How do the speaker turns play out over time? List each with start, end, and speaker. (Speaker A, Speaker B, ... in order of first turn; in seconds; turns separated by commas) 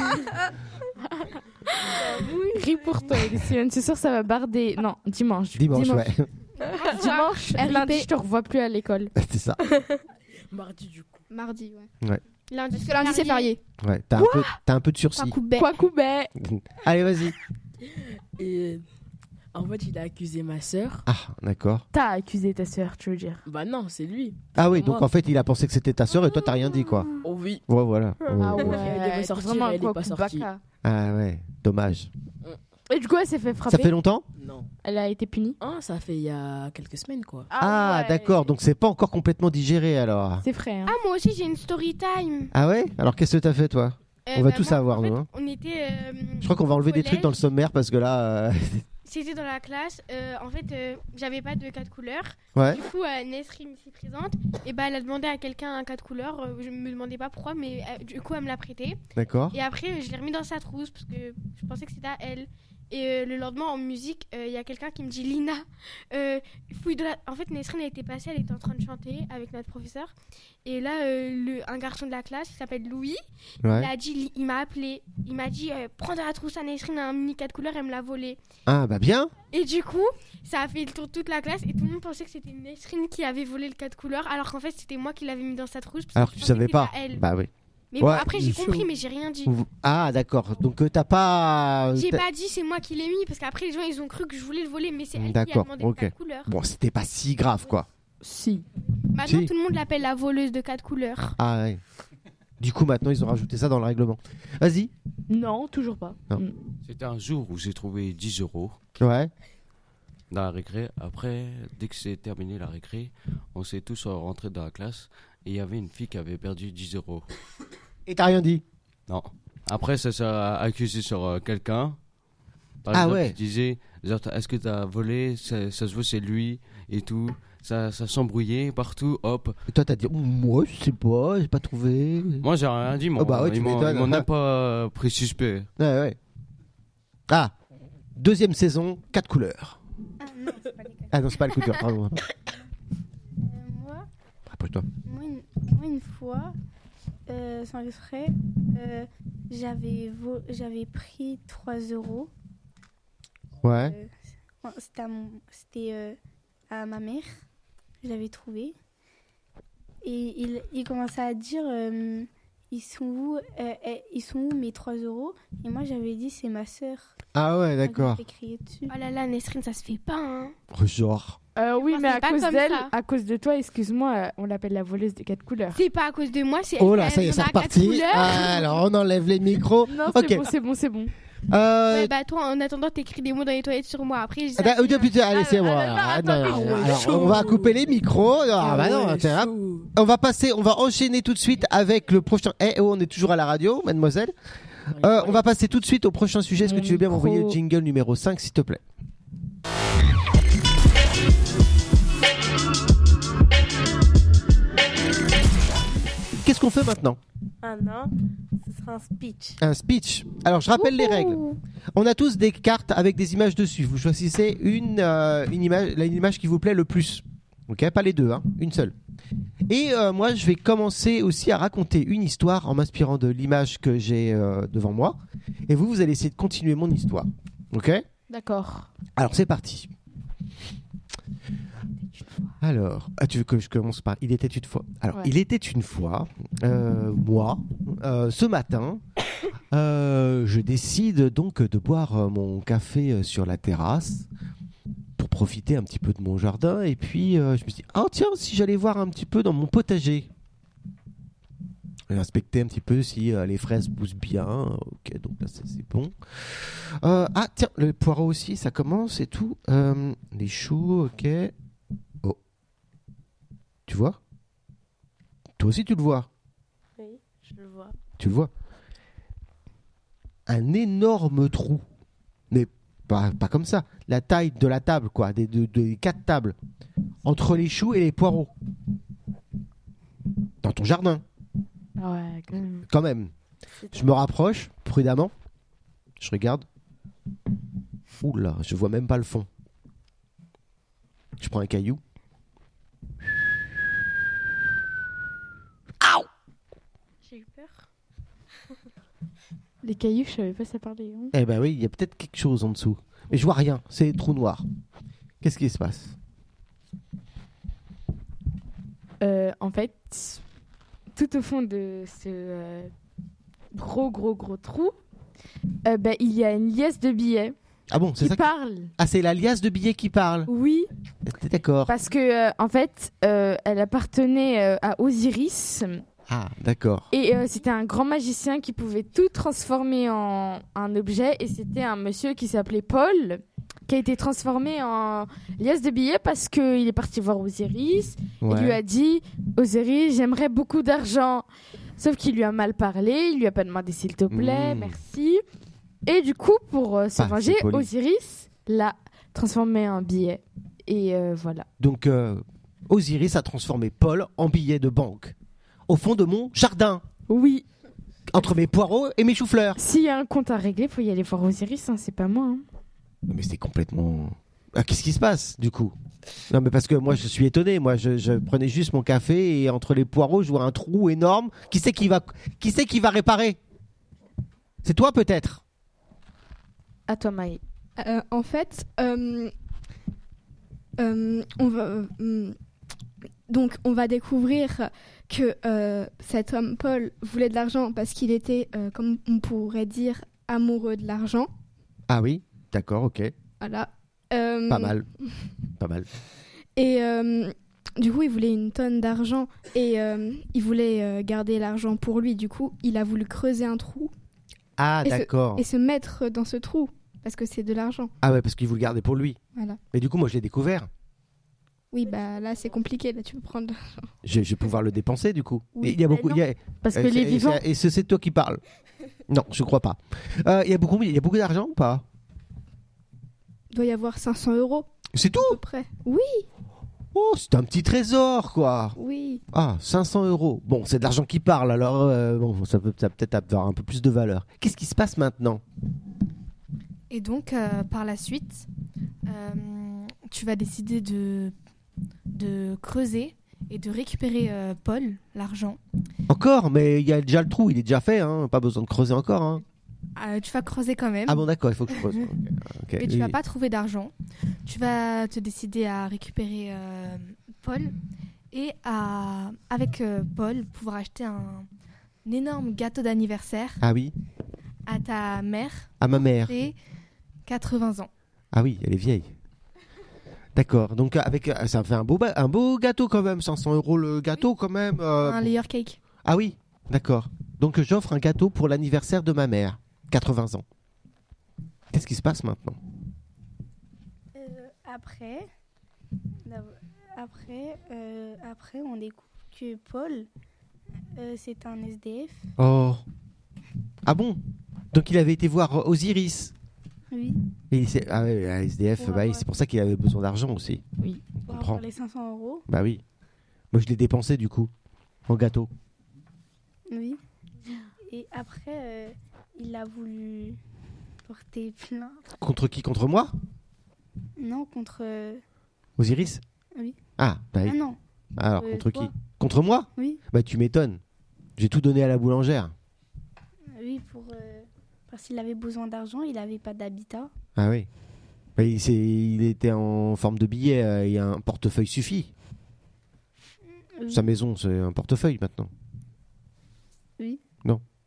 Speaker A: 1.2-6.1, Speaker B: 2.0-2.4, Speaker C: 5.5-6.3, Speaker A: 6.8-9.1, Speaker D: 6.9-7.3, Speaker E: 7.5-8.1, Speaker C: 9.2-9.6, Speaker F: 10.5-11.2, Speaker E: 11.3-11.9, Speaker D: 12.5-13.5, Speaker E: 12.7-13.6, Speaker C: 13.8-15.4, Speaker A: 14.2-14.6, Speaker E: 15.2-15.7, Speaker A: 15.6-16.3, Speaker C: 16.4-17.4, Speaker F: 17.8-18.8, Speaker F: 19.5-21.1, Speaker C: 21.1-21.9, Speaker A: 21.9-23.4, Speaker F: 23.5-25.1, Speaker C: 24.6-27.1, Speaker F: 27.2-27.6, Speaker C: 27.7-28.9, Speaker B: 28.2-28.6, Speaker A: 28.4-30.6, Speaker F: 28.6-30.5, Speaker C: 30.8-32.1, Speaker A: 32.9-33.9, Speaker C: 33.7-34.2, Speaker F: 34.4-34.7, Speaker A: 34.8-35.6, Speaker F: 35.6-37.5, Speaker A: 37.5-38.5, Speaker C: 37.6-40.5, Speaker A: 40.4-41.0, Speaker D: 40.9-42.5, Speaker C: 42.5-45.3, Speaker D: 44.3-47.3, Speaker C: 46.4-48.9, Speaker D: 49.0-59.0, Speaker C: 52.5-52.8, Speaker C: 59.2-59.6, Speaker D: 59.5-70.1, Speaker D: 70.7-78.4, Speaker C: 73.6-73.9, Speaker C: 78.7-79.3, Speaker D: 79.5-87.2, Speaker C: 86.2-88.8, Speaker D: 87.9-89.5, Speaker C: 89.5-92.2, Speaker D: 92.0-96.5, Speaker C: 95.2-97.9, Speaker A: 98.2-98.7, Speaker D: 99.1-101.4, Speaker C: 99.2-99.5, Speaker C: 101.4-101.8, Speaker C: 102.6-104.9, Speaker A: 105.3-106.5, Speaker G: 106.9-108.8, Speaker C: 109.0-109.3, Speaker G: 110.3-117.3, Speaker C: 118.1-118.6, Speaker G: 119.1-122.0, Speaker G: 122.8-129.6, Speaker C: 122.9-123.4, Speaker C: 129.7-132.5, Speaker G: 132.4-135.7, Speaker C: 133.2-134.3, Speaker C: 135.8-136.2, Speaker C: 137.3-137.5, Speaker C: 138.2-139.8, Speaker H: 140.2-141.8, Speaker C: 141.1-142.2, Speaker H: 143.4-144.1, Speaker C: 144.5-144.9, Speaker H: 145.0-146.5, Speaker H: 147.3-152.3, Speaker C: 153.6-154.0, Speaker H: 153.7-156.2, Speaker H: 156.7-157.4, Speaker H: 158.0-158.8, Speaker H: 160.0-167.1, Speaker C: 167.3-168.2, Speaker H: 167.8-168.9, Speaker D: 168.9-170.6, Speaker C: 170.7-171.4, Speaker A: 171.6-175.8, Speaker D: 171.8-172.9, Speaker D: 175.7-178.8, Speaker C: 176.8-180.5, Speaker A: 179.9-181.1, Speaker C: 181.5-182.1, Speaker D: 181.9-185.2, Speaker C: 184.6-194.3, Speaker A: 185.3-187.5, Speaker F: 186.4-188.0, Speaker F: 188.6-189.9, Speaker F: 194.9-195.4, Speaker C: 194.9-198.8, Speaker A: 196.6-197.6, Speaker C: 206.4-207.2, Speaker B: 207.6-208.1, Speaker B: 208.6-209.6, Speaker C: 209.6-211.4, Speaker C: 211.9-218.9, Speaker C: 219.7-228.0, Speaker A: 228.3-228.9, Speaker C: 229.2-229.9, Speaker C: 232.6-239.0, Speaker C: 239.7-244.3, Speaker C: 245.2-250.3, Speaker C: 252.1-261.5, Speaker C: 263.9-264.2, Speaker C: 265.6-266.3, Speaker B: 267.0-268.0, Speaker C: 268.2-268.5, Speaker C: 270.5-271.8, Speaker C: 272.5-276.6, Speaker C: 277.2-278.5, Speaker C: 280.6-281.2, Speaker A: 282.0-282.9, Speaker C: 282.9-283.3, Speaker C: 283.9-285.3, Speaker C: 286.2-286.6, Speaker C: 288.2-289.5, Speaker C: 291.4-292.0, Speaker C: 296.0-296.3, Speaker D: 297.3-297.8, Speaker A: 299.8-301.3, Speaker C: 301.3-304.6, Speaker C: 305.4-306.1, Speaker A: 309.2-310.4, Speaker A: 311.1-312.9, Speaker A: 313.7-314.9, Speaker A: 315.9-317.6, Speaker C: 317.9-320.5, Speaker A: 318.2-318.9, Speaker A: 320.5-320.9, Speaker C: 321.2-321.9, Speaker A: 321.9-326.0, Speaker C: 326.3-327.1, Speaker A: 327.1-341.5, Speaker C: 338.4-338.8, Speaker A: 342.0-345.4, Speaker C: 344.3-345.0, Speaker A: 346.1-351.7, Speaker C: 347.2-347.9, Speaker C: 351.8-355.4, Speaker C: 355.9-357.0, Speaker A: 357.3-357.7, Speaker C: 358.3-359.8, Speaker A: 359.8-362.6, Speaker C: 363.3-365.9, Speaker C: 366.5-373.6, Speaker C: 374.8-375.6, Speaker A: 377.1-377.6, Speaker E: 378.0-379.5, Speaker E: 381.0-382.6, Speaker E: 383.5-391.5, Speaker C: 392.1-393.3, Speaker E: 393.6-395.0, Speaker C: 394.7-395.1, Speaker C: 395.8-396.1, Speaker E: 396.8-404.1, Speaker C: 404.8-405.6, Speaker E: 405.0-408.1, Speaker C: 408.2-409.4, Speaker E: 409.6-409.8, Speaker C: 409.9-410.9, Speaker E: 411.9-414.1, Speaker H: 412.1-412.7, Speaker C: 414.2-418.6, Speaker E: 415.8-416.1, Speaker A: 416.8-417.6, Speaker C: 419.3-422.1, Speaker E: 423.7-424.9, Speaker C: 425.1-425.6, Speaker E: 425.4-426.5, Speaker C: 427.1-429.0, Speaker E: 429.0-429.4, Speaker C: 429.5-435.6, Speaker I: 437.1-438.7, Speaker I: 439.3-441.6, Speaker I: 442.3-445.8, Speaker C: 446.3-449.6, Speaker I: 450.2-452.1, Speaker C: 451.3-453.4, Speaker I: 453.0-454.1, Speaker I: 454.6-457.9, Speaker I: 458.5-461.7, Speaker I: 462.2-463.8, Speaker C: 463.8-464.1, Speaker I: 464.9-466.8, Speaker C: 466.0-466.5, Speaker I: 467.5-468.1, Speaker C: 468.5-469.3, Speaker C: 470.6-475.5, Speaker I: 475.2-476.0, Speaker C: 476.2-480.6, Speaker C: 481.9-482.8, Speaker H: 484.4-485.5, Speaker H: 486.4-490.3, Speaker H: 491.1-492.5, Speaker C: 492.6-493.0, Speaker C: 494.1-494.4, Speaker C: 494.9-496.5, Speaker H: 497.1-497.4, Speaker C: 497.7-500.8, Speaker H: 499.0-499.4, Speaker C: 501.4-501.8, Speaker H: 501.5-502.7, Speaker C: 502.7-503.0, Speaker C: 503.7-504.7, Speaker C: 505.3-505.7, Speaker H: 506.9-507.2, Speaker H: 508.1-510.6, Speaker H: 511.2-512.2, Speaker C: 512.4-513.3, Speaker H: 514.4-515.4, Speaker C: 516.0-516.4, Speaker C: 517.2-517.8, Speaker H: 517.6-518.0, Speaker C: 518.4-521.0, Speaker C: 521.6-522.7, Speaker H: 523.7-527.3, Speaker C: 527.6-527.9, Speaker C: 528.6-532.3, Speaker H: 534.0-534.3, Speaker C: 534.1-535.7